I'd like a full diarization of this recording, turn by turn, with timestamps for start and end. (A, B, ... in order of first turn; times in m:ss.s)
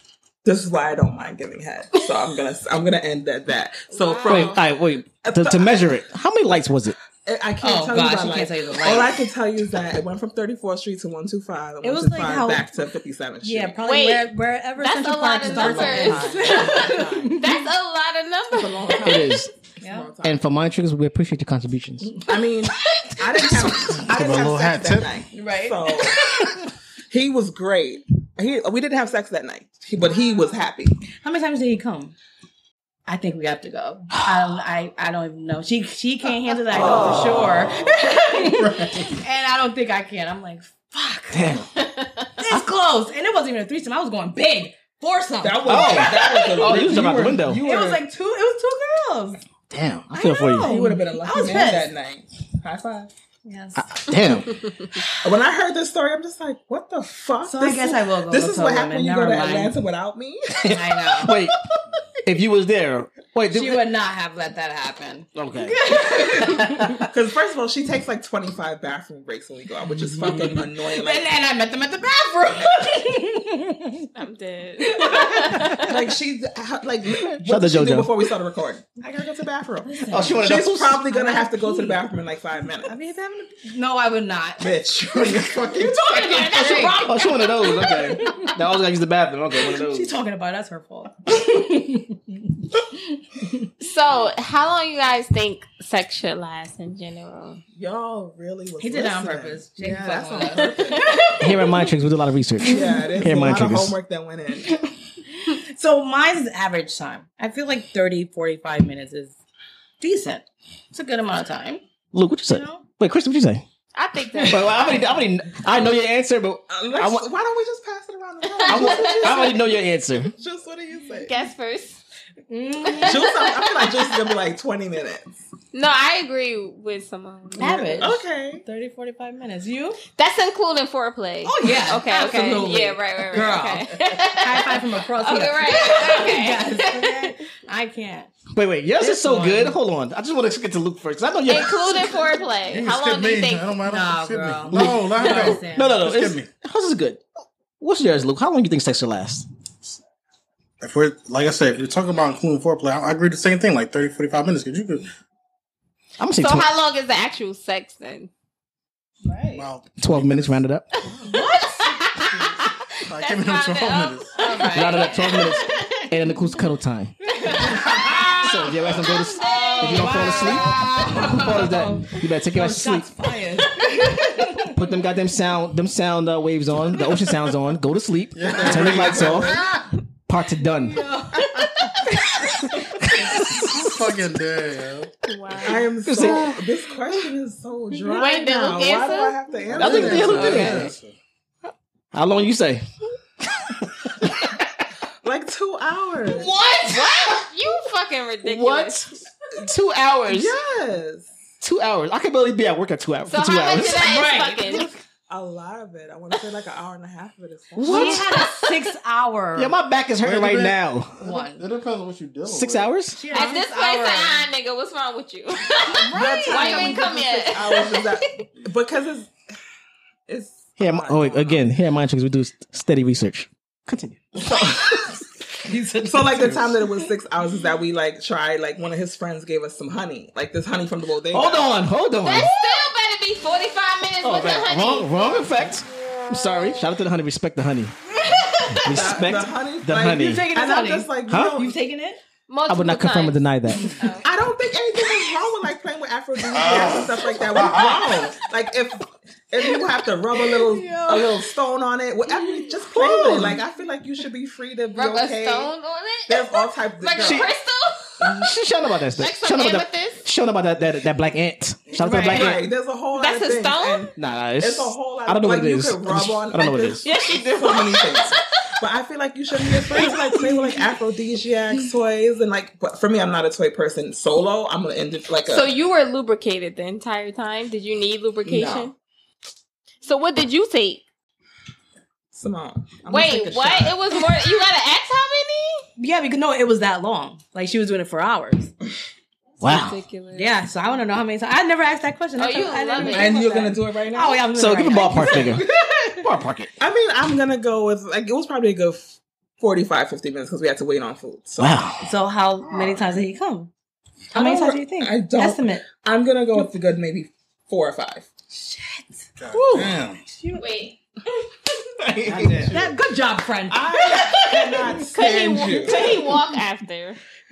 0:00.4-0:04.7 A
0:03.9-0:04.6 B
0:04.2-0:07.0 C
0:05.2-0:06.0 A
0:07.2-0:13.8 A
0:07.6-0:09.2 D
0:11.8-0:12.6 D
0:13.4-0:17.6 D
0:13.8-0:19.2 B
0:15.4-0:17.4 A
0:18.5-0:20.5 A
0:19.0-0:19.5 C
0:19.8-0:20.1 D
0:20.2-0:22.2 C
0:22.1-0:26.4 A
0:24.0-0:25.1 E
0:25.3-0:26.6 D
0:27.1-0:31.0 A
0:31.2-0:32.1 D
0:33.1-0:41.6 D
0:36.7-0:37.7 A
0:38.4-0:39.1 E
0:41.3-0:41.7 C
0:41.8-0:42.2 B
0:42.4-0:49.4 D
0:45.4-0:48.0 A
0:45.6-0:47.6 C
0:49.7-0:50.7 C
0:50.1-0:51.9 D
0:50.6-0:53.1 A
0:53.4-0:53.8 D
0:53.8-0:54.6 C
0:55.2-1:00.8 A
0:57.4-0:59.8 D
1:00.6-1:01.6 C
1:00.7-1:01.4 D
1:02.2-1:03.9 C
1:03.5-1:07.1 D
1:05.4-1:05.8 C
1:07.1-1:11.3 A
1:10.2-1:14.1 D
1:14.1-1:15.9 B
1:14.8-1:15.9 D
1:15.8-1:22.9 A
1:17.4-1:18.1 C
1:19.8-1:20.5 D
1:20.1-1:21.0 C
1:21.0-1:22.0 D
1:22.8-1:24.8 D
1:24.6-1:26.8 A
1:25.7-1:28.5 D
1:26.0-1:27.4 B
1:26.5-1:30.1 C
1:29.6-1:33.7 D
1:33.8-1:37.6 B
1:37.8-1:41.4 A
1:38.8-1:41.9 D
1:41.4-1:44.0 C
1:42.6-1:43.1 D
1:42.6-1:44.8 A
1:45.4-1:49.3 D
1:50.0-1:51.8 D
1:52.1-1:53.6 C
1:52.5-1:52.8 D
1:53.9-1:55.0 B
1:54.4-1:57.3 C
1:56.7-1:59.7 A
1:58.6-1:59.5 B
1:58.6-2:00.3 C
2:00.3-2:01.3 A
2:01.2-2:02.0 B
2:02.5-2:03.3 D
2:02.9-2:04.0 B
2:03.0-2:05.4 A
2:05.7-2:08.1 B
2:07.6-2:08.6 A
2:07.6-2:10.0 D
2:10.2-2:17.3 B
2:11.4-2:18.3 D
2:18.5-2:22.2 C
2:19.0-2:19.8 D
2:21.4-2:23.7 B
2:22.7-2:26.5 E
2:23.8-2:26.0 D
2:25.6-2:27.2 C
2:27.8-2:29.4 C
2:30.8-2:35.1 E
2:36.2-2:36.7 C
2:36.4-2:38.3 B
2:39.3-2:39.6 A
2:39.5-2:40.6 E
2:40.0-2:40.9 C
2:41.3-2:42.0 D
2:41.4-2:46.0 B
2:43.0-2:44.4 E
2:44.4-2:45.4 D
2:44.7-2:47.1 C
2:47.4-2:48.4 D
2:47.7-2:48.4 B
2:48.4-2:53.1 C
2:49.3-2:54.8 D
2:49.4-2:51.0 B
2:54.7-2:59.6 C
2:58.3-2:59.9 E
2:58.5-2:59.6 A
3:00.3-3:01.1 C
3:00.8-3:02.5 D
3:03.0-3:03.9 C
3:03.3-3:05.1 E
3:05.2-3:05.9 B
3:05.6-3:10.9 A
3:06.0-3:06.6 C
3:08.1-3:09.4 B
3:09.7-3:11.1 E
3:09.7-3:10.9 C
3:12.1-3:12.8 C
3:13.5-3:14.6 C
3:15.2-3:16.5 A
3:16.3-3:17.4 C
3:16.5-3:19.1 B
3:18.4-3:20.5 C
3:20.3-3:21.3 A
3:21.6-3:24.2 C
3:23.3-3:24.9 B
3:24.0-3:24.8 D
3:24.3-3:28.2 A
3:27.8-3:28.3 C
3:27.8-3:29.8 D
3:29.6-3:31.2 C
3:30.2-3:32.9 E
3:31.2-3:31.6 D
3:32.4-3:33.3 C
3:33.1-3:34.4 D
3:33.3-3:38.2 B
3:35.9-3:37.0 D
3:35.9-3:39.3 A
3:40.3-3:41.7 A
3:40.8-3:44.4 C
3:44.4-3:45.2 A
3:45.6-3:46.9 D
3:46.0-3:51.8 A
3:51.3-3:52.6 C
3:52.2-3:55.5 B
3:54.2-3:58.0 C
3:58.7-4:00.5 C
3:58.9-4:01.7 A
4:00.2-4:02.2 D
4:01.3-4:01.6 C
4:02.5-4:04.4 B
4:02.7-4:04.0 C
4:04.2-4:15.7 A
4:06.5-4:08.1 E
4:10.5-4:11.4 D
4:13.0-4:13.6 C
4:13.1-4:13.4 D
4:14.9-4:18.3 B
4:16.3-4:17.5 A
4:17.2-4:17.5 C
4:18.2-4:22.6 C
4:19.2-4:20.2 B
4:22.0-4:35.7 A
4:22.0-4:22.4 D
4:22.1-4:22.6 B
4:23.1-4:24.1 B
4:24.2-4:27.1 C
4:27.0-4:28.5 B
4:29.7-4:30.6 B
4:35.5-4:38.9 B
4:38.4-4:38.9 A
4:40.0-4:41.0 B
4:42.3-4:44.0 A
4:43.1-4:45.8 B
4:46.0-4:48.7 D
4:49.6-4:50.0 C
4:49.6-4:50.5 B
4:50.3-4:56.2 D
4:52.4-4:53.6 B
4:53.0-4:55.8 A
4:54.5-4:55.6 C
4:56.2-4:56.7 C
4:56.8-5:01.8 A
5:01.6-5:02.1 C
5:02.0-5:03.7 D
5:02.7-5:03.0 E
5:04.3-5:08.3 A
5:04.3-5:05.9 D
5:08.5-5:09.2 D
5:09.4-5:10.2 E
5:09.6-5:10.0 A
5:10.3-5:10.7 D
5:10.5-5:11.0 B
5:12.0-5:12.9 A
5:12.2-5:12.8 C
5:12.7-5:14.9 D
5:13.7-5:16.2 A
5:15.1-5:17.2 B
5:15.9-5:16.2 D